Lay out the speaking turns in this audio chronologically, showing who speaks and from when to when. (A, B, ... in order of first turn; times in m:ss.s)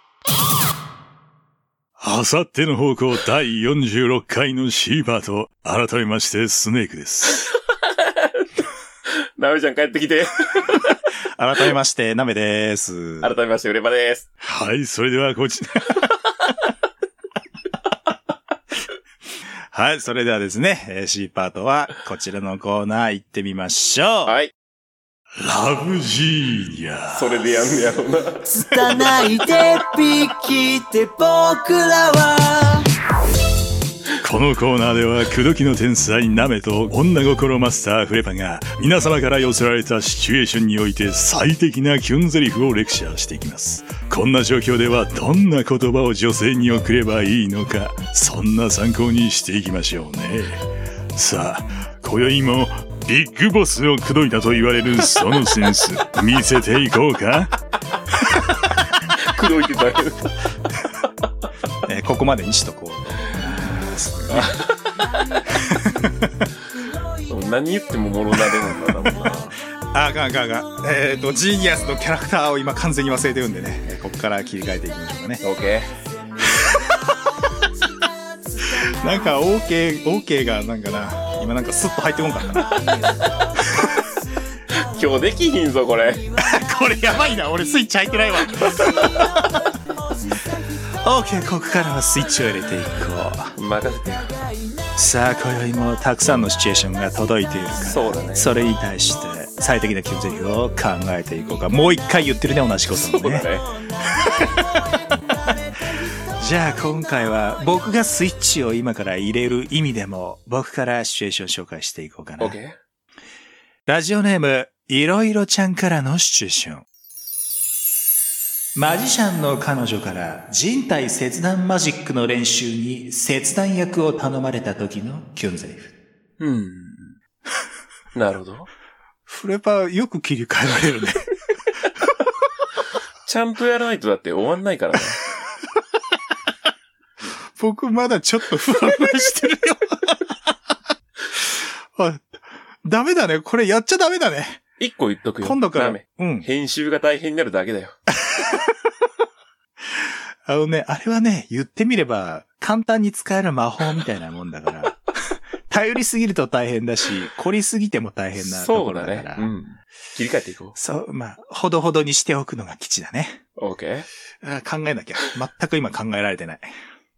0:02.0-0:07.5 A
0:08.0-0:08.4 B
0:09.1-0:11.0 B
0:11.3-0:13.3 C
0:13.2-0:14.2 B
0:14.4-0:16.0 A
0:19.7-0:24.3 C
0:24.2-0:24.5 B
0:25.4-0:27.4 A
0:27.1-0:28.4 B
0:28.5-0:32.8 D
0:34.2-0:57.5 A
0:59.2-1:00.4 B
1:01.8-1:04.5 C
1:04.3-1:04.7 B
1:05.5-1:06.4 C
1:07.3-1:09.5 B
1:09.9-1:15.4 C
1:15.4-1:15.9 B
1:18.6-1:22.8 C
1:23.6-1:24.0 C
1:24.7-1:26.4 B
1:26.4-1:29.7 C
1:28.5-1:29.1 B
1:31.0-1:33.5 C
1:33.6-1:34.4 B
1:34.9-1:43.5 C
1:37.8-1:38.6 B
1:42.9-1:43.7 B
1:46.4-1:52.6 C
1:52.4-1:52.8 B
1:53.9-1:56.8 C
1:58.7-2:05.9 C
2:06.4-2:07.2 B
2:08.1-2:08.7 B
2:09.3-2:11.3 C
2:13.2-2:15.2 B
2:17.6-2:20.2 C
2:21.9-2:24.6 C
2:24.8-2:28.0 B
2:25.4-2:26.5 C
2:28.3-2:28.7 C
2:30.0-2:39.5 C
2:38.4-2:40.8 B
2:40.7-2:43.4 C
2:43.6-2:44.1 B
2:44.4-2:46.7 C